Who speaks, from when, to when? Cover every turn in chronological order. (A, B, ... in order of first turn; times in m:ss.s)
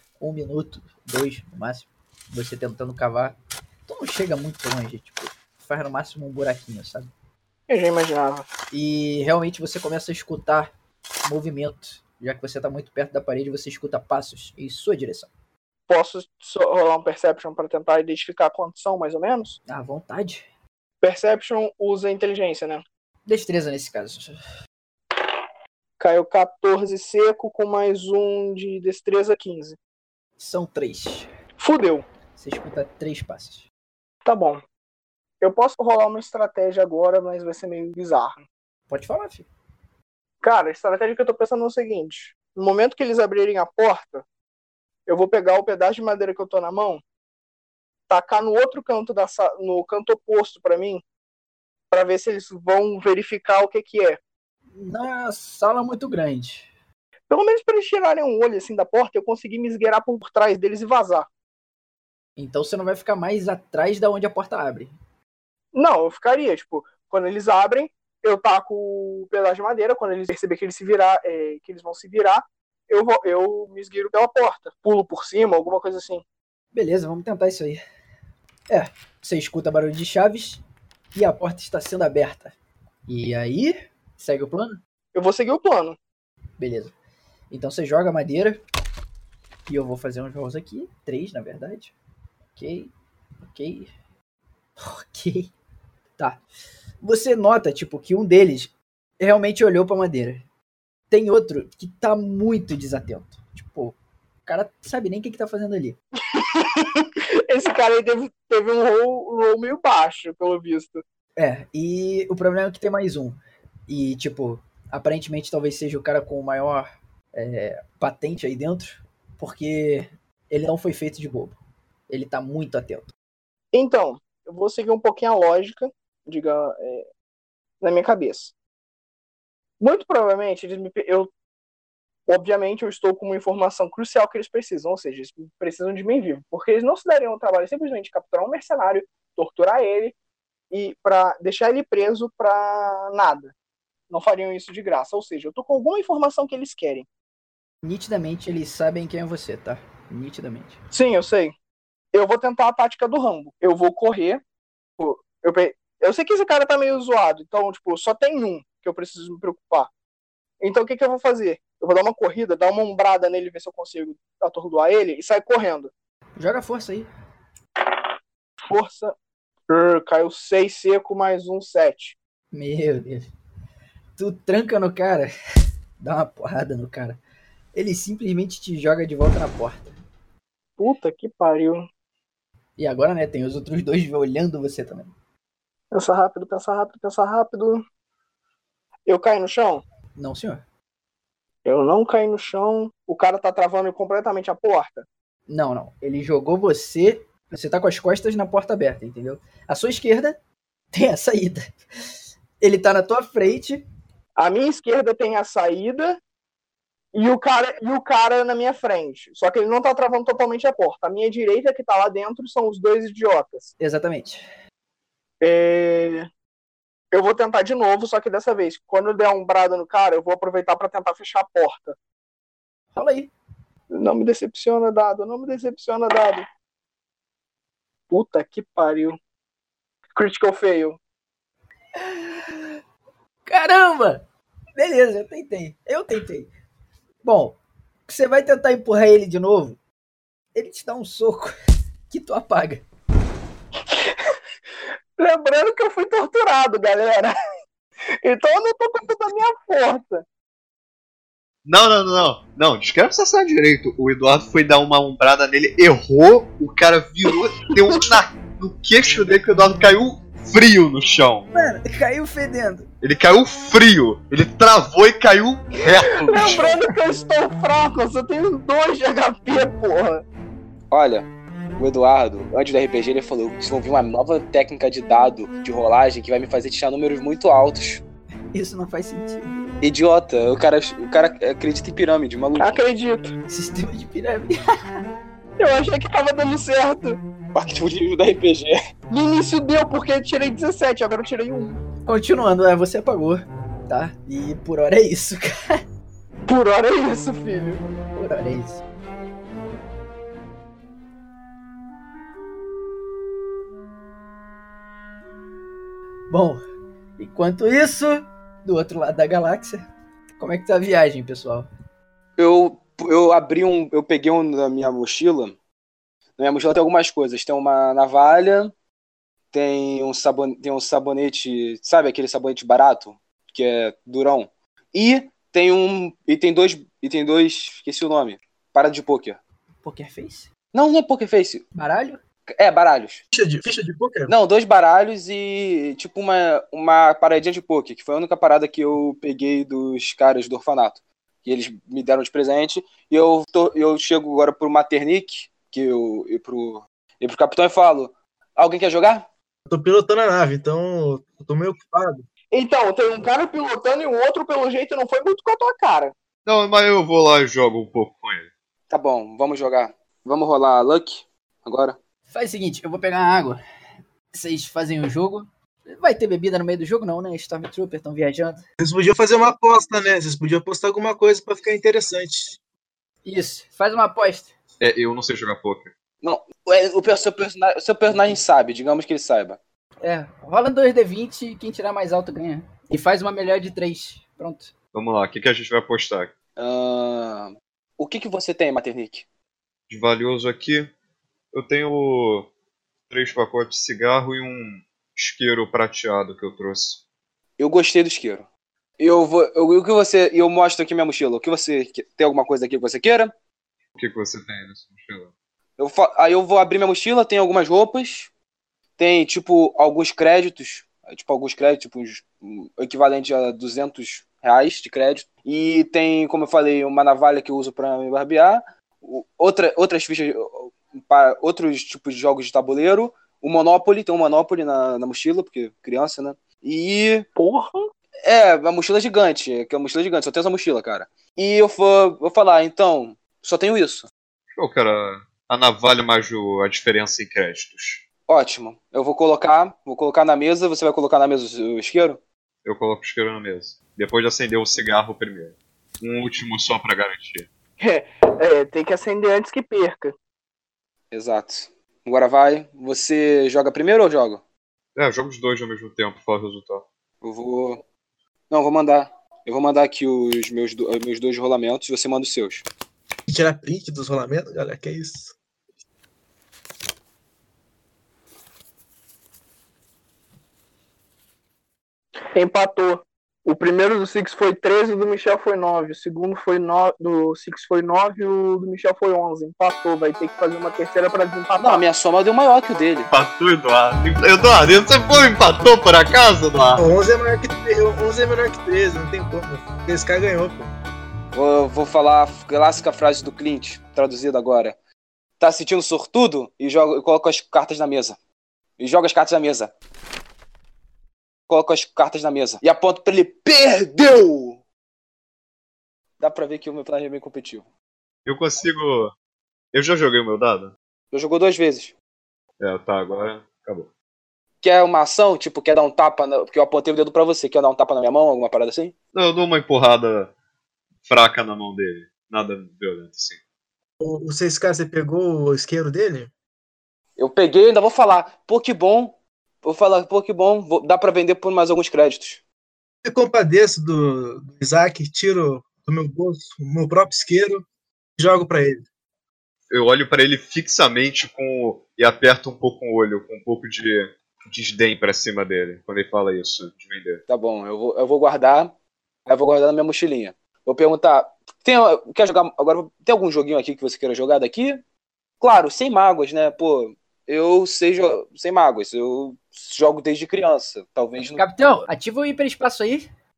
0:00.2-0:07.1 A
0:07.7-0:08.5 B
0:08.7-0:10.7 A
0:11.2-0:15.3 A
0:15.9-0:19.6 B
0:19.7-0:20.4 A
0:21.0-0:22.8 B
0:23.3-0:24.4 A
0:26.0-0:29.8 B
0:30.4-0:31.3 A
0:31.6-0:32.1 B
0:32.3-0:33.6 A
0:34.2-0:34.6 B
0:35.4-0:38.4 B
0:38.9-0:39.5 A
0:40.4-0:44.2 B
0:45.1-0:47.0 B
0:48.1-0:51.0 B
0:51.9-0:54.2 B
0:54.7-0:56.7 A
0:57.3-1:01.3 B
1:02.4-1:04.9 A
1:05.7-1:16.2 B
1:16.7-1:17.8 A
1:18.7-1:20.6 A
1:21.1-1:22.5 A
1:23.1-1:24.8 A
1:25.1-1:26.0 B
1:26.6-1:26.9 A
1:27.5-1:28.6 A
1:29.7-1:31.9 A
1:32.5-1:32.9 A
1:33.4-1:33.9 A
1:34.8-1:35.5 A
1:36.2-1:36.4 A
1:37.0-1:40.4 A
1:41.1-1:46.0 A
1:46.2-1:51.0 B
1:51.4-2:01.6 A
2:02.1-2:03.1 A
2:03.7-2:07.1 B
2:07.8-2:08.5 B
2:09.8-2:11.3 B
2:12.3-2:20.2 B
2:20.7-2:23.5 B
2:24.1-2:27.1 B
2:27.8-2:30.8 A
2:30.9-2:31.5 B
2:32.1-2:34.4 B
2:35.0-2:39.9 B
2:40.6-2:45.9 B
2:46.4-2:47.1 A
2:48.7-2:49.1 B
2:49.7-2:52.2 B
2:52.5-2:53.3 A
2:54.2-2:55.3 A
2:56.0-2:57.2 A
2:57.7-3:00.0 A
3:00.8-3:01.9 B
3:02.8-3:05.1 A
3:05.9-3:07.8 B
3:09.0-3:09.8 B
3:10.2-3:10.6 A
3:11.6-3:15.0 B
3:15.5-3:20.4 A
3:20.9-3:21.7 A
3:22.6-3:23.8 A
3:24.4-3:26.2 B
3:27.1-3:33.7 B
3:33.8-3:34.4 A
3:35.4-3:36.3 B
3:37.1-3:42.0 B
3:42.9-3:43.3 A
3:43.9-3:46.4 B
3:48.1-3:49.2 B
3:50.1-3:51.0 B
3:52.0-3:52.8 A
3:53.5-3:54.2 A
3:54.8-3:56.5 A
3:57.2-3:59.8 A
4:00.5-4:01.5 A
4:02.1-4:02.8 A
4:03.9-4:04.3 B
4:05.2-4:07.3 B
4:08.2-4:10.2 B
4:11.6-4:21.5 C
4:21.5-4:22.9 A
4:23.0-4:26.8 C
4:26.2-4:30.2 B
4:30.9-4:38.0 D
4:38.5-4:39.6 A
4:39.8-4:42.7 D
4:42.6-4:43.3 B
4:43.5-4:44.6 A
4:45.6-4:47.2 B
4:47.5-4:48.8 D
4:49.1-4:51.8 B
4:52.0-4:55.8 A
4:56.5-4:57.8 B
4:58.1-4:58.8 A
5:06.3-5:06.6 A
5:07.2-5:09.8 A
5:10.4-5:11.7 A
5:12.4-5:15.6 D
5:16.4-5:18.7 D
5:19.5-5:29.4 D
5:29.8-5:30.5 A
5:30.7-5:31.6 D
5:31.7-5:32.2 A
5:32.5-5:33.2 D
5:33.3-5:34.3 E
5:34.3-5:49.2 D
5:49.7-5:52.2 E
5:52.5-5:56.1 B
5:56.4-5:58.5 C
5:58.9-6:02.0 D
6:02.3-6:03.6 A
6:04.3-6:08.6 A
6:08.8-6:12.6 E
6:13.2-6:14.5 A
6:14.8-6:15.9 C
6:16.2-6:19.6 D
6:20.0-6:24.7 A
6:24.9-6:26.3 C
6:26.6-6:29.3 D
6:29.9-6:30.9 C
6:31.5-6:32.5 C
6:33.1-6:37.0 C
6:37.6-6:38.5 D
6:39.0-6:43.3 D
6:44.0-6:45.3 C
6:45.8-6:48.3 D
6:49.0-7:07.3 D
7:07.4-7:07.9 B
7:08.2-7:14.1 D
7:14.6-7:18.0 C
7:18.3-7:22.2 D
7:22.6-7:27.5 C
7:27.8-7:30.1 B
7:31.1-7:34.4 D
7:35.0-7:36.8 C
7:37.2-7:37.8 D
7:38.5-7:42.6 D
7:43.3-7:45.3 E
7:52.3-8:01.8 B
8:01.6-8:03.1 D
8:03.1-8:06.8 C
8:06.8-8:10.7 E
8:11.3-8:14.7 D
8:15.4-8:18.2 D
8:18.8-8:19.7 D
8:21.5-8:24.6 D
8:26.2-8:27.6 D
8:28.2-8:29.1 C
8:29.7-8:30.7 C
8:31.1-8:31.9 D
8:32.6-8:33.9 C
8:34.6-8:38.9 D
8:39.1-8:40.3 C
8:41.0-8:43.4 C
8:44.0-8:46.3 E
8:47.2-8:52.4 D
8:53.0-8:57.6 E
8:58.2-8:58.8 E
8:59.7-9:07.2 C
9:07.3-9:08.7 D
9:09.3-9:14.8 D
9:15.4-9:21.4 D
9:21.4-9:23.1 A